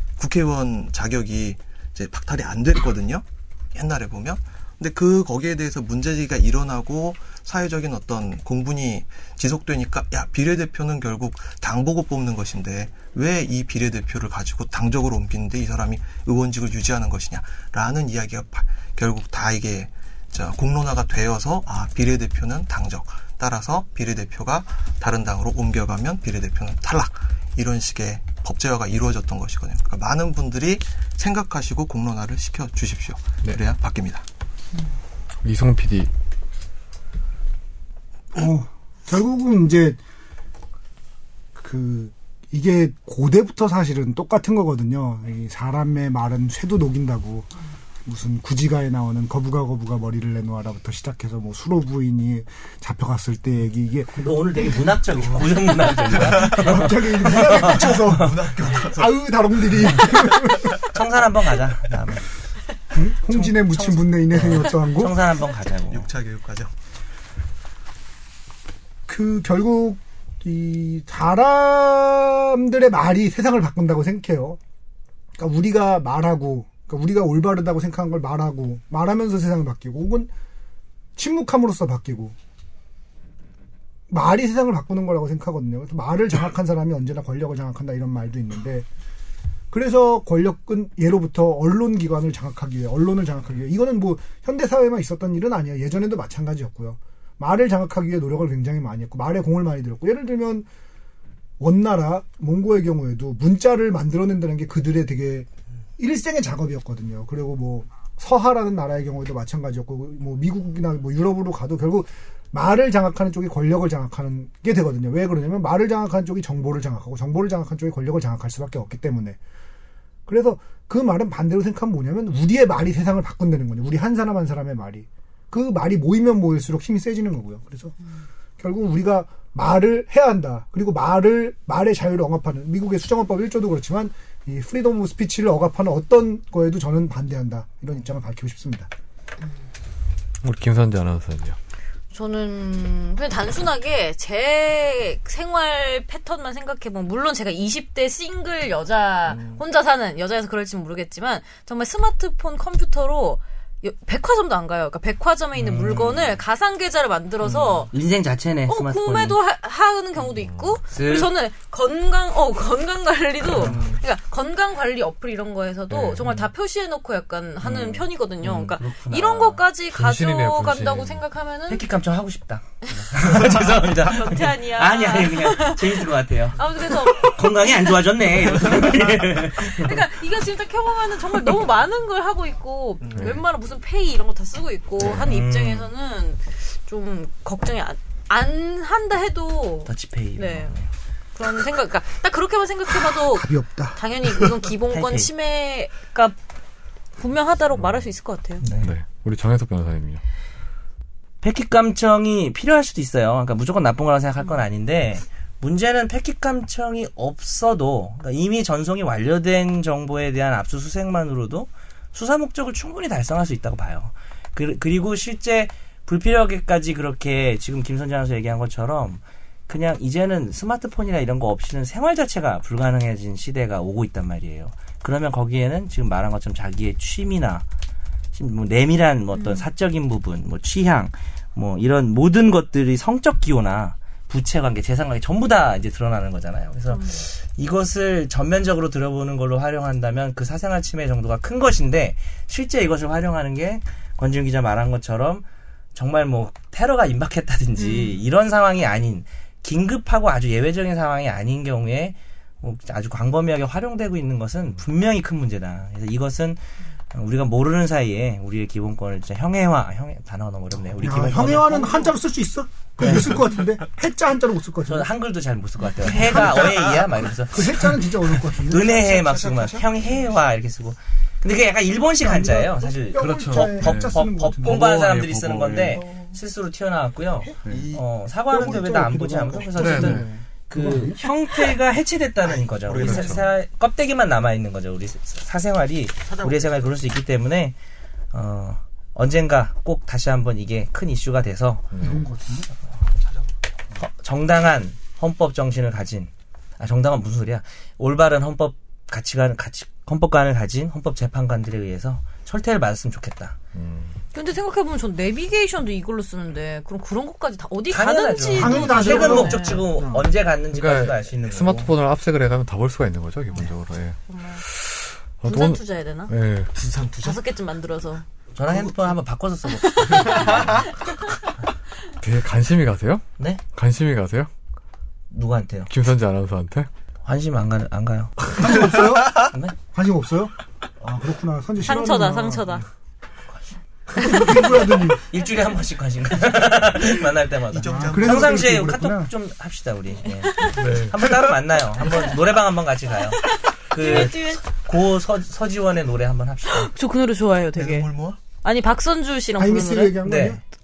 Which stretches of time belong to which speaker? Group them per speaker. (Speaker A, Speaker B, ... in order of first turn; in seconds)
Speaker A: 0.2-34.2, 56.1-61.0, 65.9-66.7, 163.7-163.9, 173.2-173.9, 183.0-183.4, 266.6-266.9, 268.7-270.4, 277.6-279.0, 282.4-283.5, 286.2-286.9, 293.2-293.5, 316.7-317.4, 320.2-320.9, 337.7-338.8, 347.8-348.4
Speaker B: 35.4-36.1, 140.4-141.6, 160.4-160.8, 165.9-166.4, 169.9-171.2, 183.2-183.4, 198.8-200.2, 273.1-276.1, 279.8-280.3, 283.0-283.4, 291.9-292.2, 303.7-304.2, 310.7-316.7, 322.2-324.5, 325.9-326.9, 340.7-341.2
Speaker C: 38.3-40.0, 41.5-47.5, 48.0-55.4, 56.2-60.8, 62.9-65.2, 69.1-74.6, 75.4-80.3, 81.2-82.3, 84.1-88.9, 89.7-100.7, 101.6-105.5, 106.0-119.4, 120.3-128.0, 128.6-138.9, 193.2-194.0, 261.0-265.1, 266.1-266.9, 267.5-269.0, 272.2-274.9, 278.5-281.2, 292.0-292.7, 308.6-310.3, 328.6-332.8, 334.2-335.2, 337.8-339.3, 349.6-350.6
Speaker D: 54.2-58.4, 60.8-62.3, 63.3-66.1, 155.6-156.3, 157.4-159.4, 160.9-161.3, 163.6-164.0, 167.6-169.7, 171.7-180.0, 185.0-185.9, 189.9-190.9, 194.9-195.3, 198.6-198.9, 201.4-227.7, 228.3-256.6, 257.1-262.1, 263.0-263.4, 264.9-268.0, 268.6-287.8, 288.3-291.9, 294.0-303.6, 307.9-311.9, 318.6-320.8, 325.3-325.9, 327.2-329.8, 335.3-346.9, 350.2-350.6
Speaker E: 142.1-157.9, 158.7-171.8, 172.9-177.6, 178.5-190.8, 191.3-196.4, 197.2-198.7, 229.4-229.6, 236.9-237.2, 247.8-248.2, 304.3-309.8, 314.3-314.6, 315.4-316.3, 317.2-318.2, 319.8-320.6, 331.8-332.9, 334.2-334.7, 343.4-344.6, 346.7-350.2